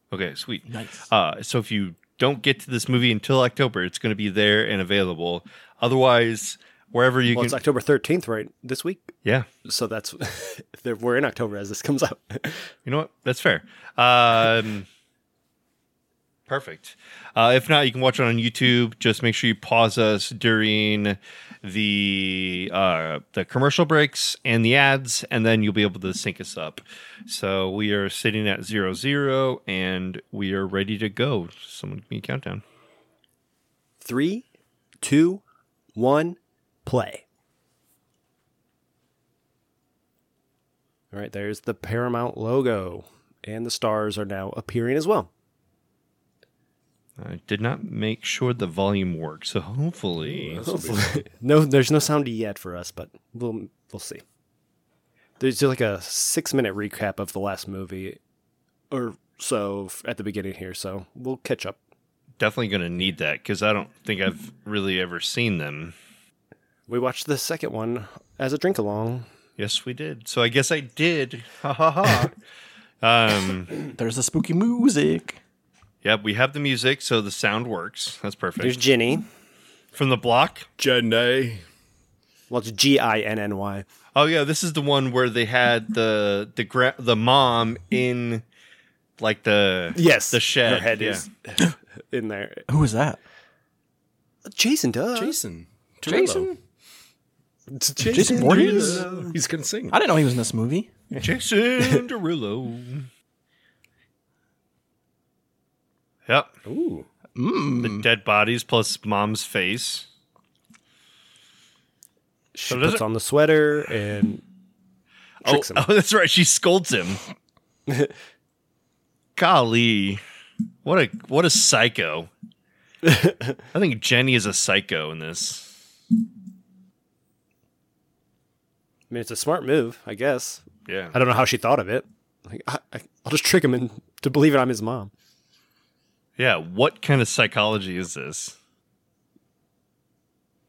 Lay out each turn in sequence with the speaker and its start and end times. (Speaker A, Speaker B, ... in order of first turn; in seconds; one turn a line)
Speaker A: 0.1-7.6
Speaker B: 0.7-1.0
Speaker C: 7.3-9.1
Speaker C: 9.7-12.7
Speaker A: 12.9-14.9
Speaker A: 16.5-32.6
Speaker C: 34.0-34.5
Speaker C: 35.0-35.4
Speaker C: 36.0-37.2
Speaker C: 41.1-45.3
Speaker A: 47.2-50.6
Speaker D: 50.2-51.2
Speaker C: 50.6-54.2
Speaker C: 55.4-58.2
Speaker C: 58.9-61.8
Speaker A: 62.4-65.9
Speaker C: 66.9-69.3
Speaker A: 69.6-72.3
Speaker A: 73.0-73.8
Speaker B: 74.0-75.4
Speaker A: 76.0-78.8
Speaker C: 78.6-79.2
Speaker A: 79.9-80.7
Speaker D: 80.8-81.6
Speaker C: 82.5-83.8
Speaker A: 84.1-88.4
Speaker A: 89.2-91.2
Speaker C: 89.9-92.6
Speaker B: 92.7-93.2
Speaker C: 94.5-95.4
Speaker D: 95.1-96.5
Speaker B: 96.1-96.6
Speaker C: 97.7-99.4
Speaker B: 98.1-99.1
Speaker D: 98.1-100.0
Speaker B: 99.9-100.9
Speaker A: 101.2-103.1
Speaker A: 106.3-106.5
Speaker D: 106.6-107.1
Speaker B: 107.4-108.1
Speaker A: 107.8-110.0
Speaker C: 112.5-114.4
Speaker A: 112.7-113.0
Speaker C: 115.4-115.9
Speaker A: 115.4-117.2
Speaker C: 117.9-118.1
Speaker A: 119.4-120.2
Speaker A: 120.8-122.3
Speaker C: 123.0-123.6
Speaker A: 123.7-125.8
Speaker C: 129.1-135.1
Speaker A: 130.9-131.2
Speaker A: 136.4-138.6